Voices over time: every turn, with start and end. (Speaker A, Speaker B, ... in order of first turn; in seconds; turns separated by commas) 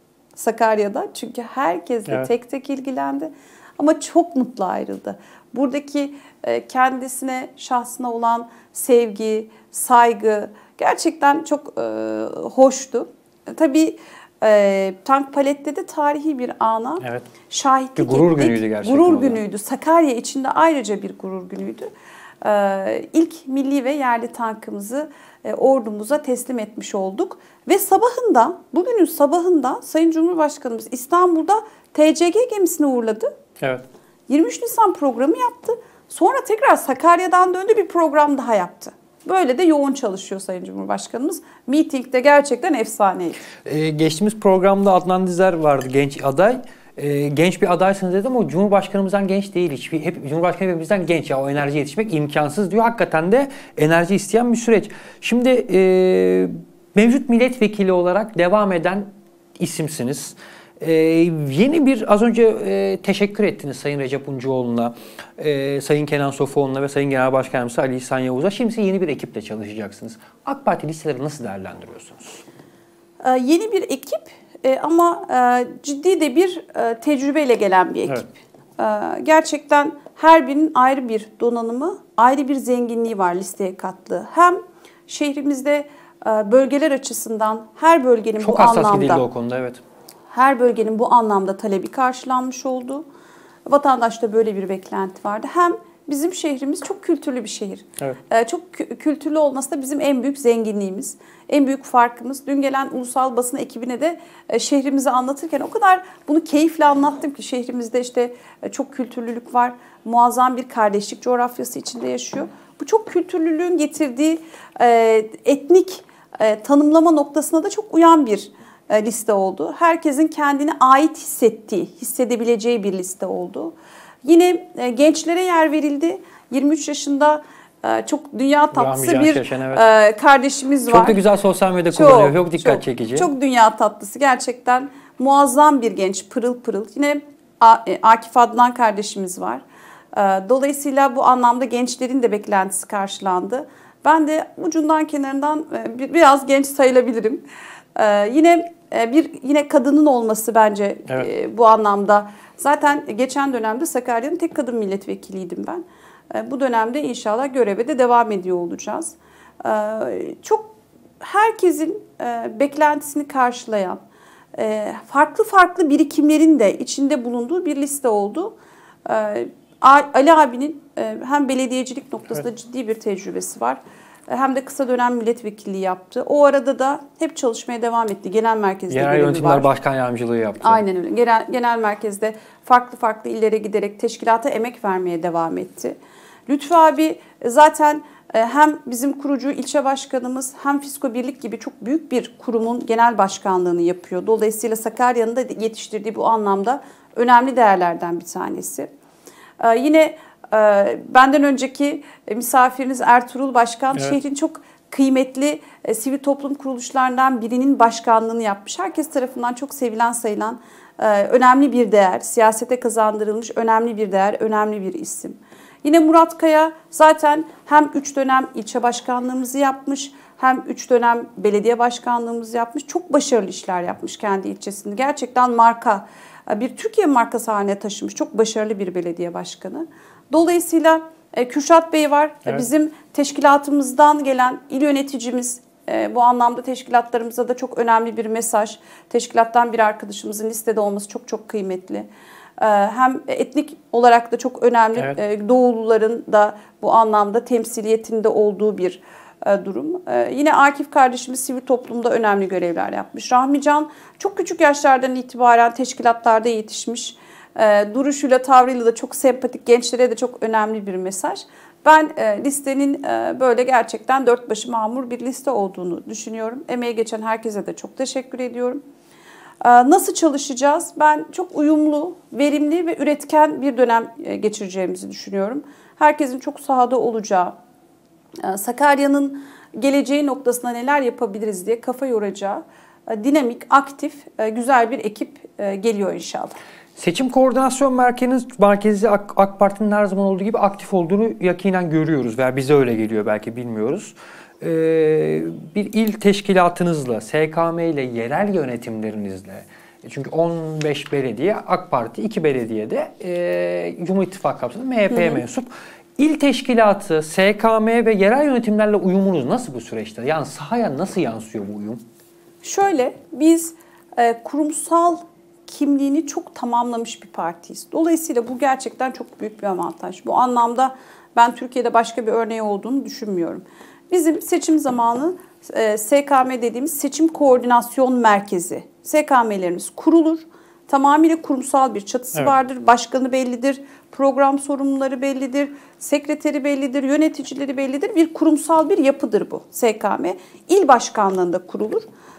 Speaker A: 0.3-21.9, Speaker B: 17.0-17.2, Speaker B: 18.0-19.4, Speaker A: 22.4-33.3, Speaker A: 34.3-43.5, Speaker B: 43.6-72.4, Speaker A: 73.2-89.2, Speaker B: 88.4-89.8, Speaker A: 90.3-93.0, Speaker A: 93.7-131.2, Speaker B: 128.7-129.8, Speaker B: 130.9-133.3, Speaker A: 131.9-147.4, Speaker A: 147.9-164.0, Speaker A: 164.5-168.5, Speaker A: 169.0-179.7, Speaker B: 178.9-180.8, Speaker A: 180.6-198.9, Speaker A: 199.6-268.8, Speaker A: 269.6-277.6, Speaker A: 278.4-286.6, Speaker B: 287.0-312.0, Speaker A: 305.1-305.4, Speaker A: 312.6-342.0